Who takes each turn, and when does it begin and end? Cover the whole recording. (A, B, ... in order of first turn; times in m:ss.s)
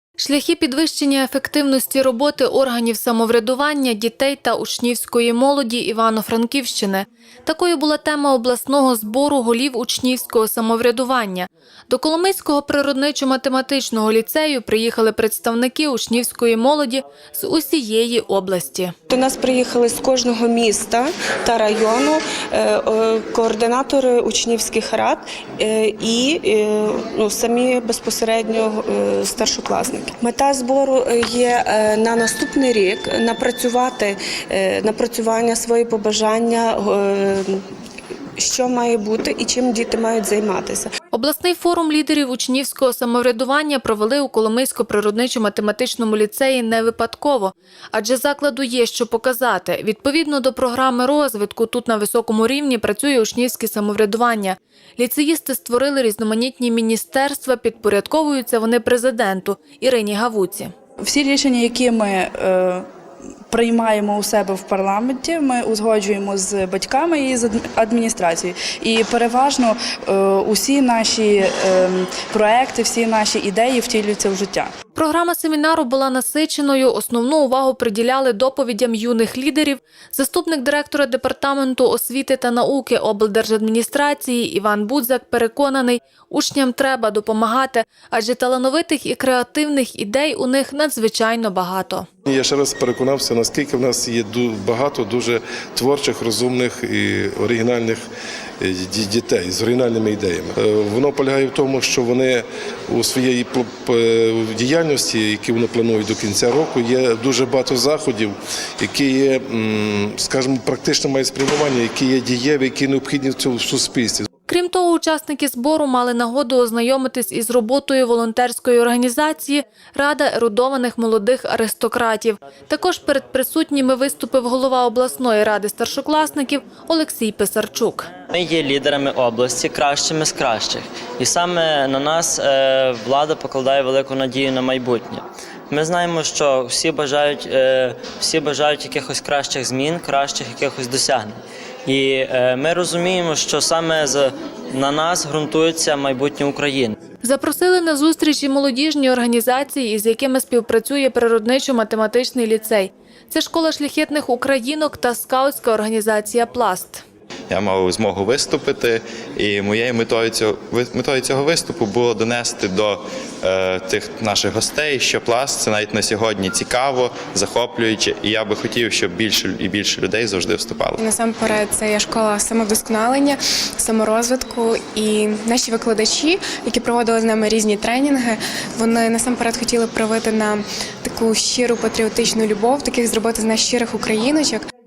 0:00.2-0:18.9 A
0:19.1-0:37.6 B
0:38.4-0:40.9 B
0:41.1-1:00.7 A
1:01.0-1:02.9 C
1:03.5-1:14.7 C
1:15.0-1:32.1 A
1:32.3-1:38.0 D
1:38.6-1:54.3 D
1:54.5-2:08.1 A
2:08.3-2:27.0 E
2:27.2-2:37.0 A
2:37.5-2:51.0 F
2:51.0-3:04.7 G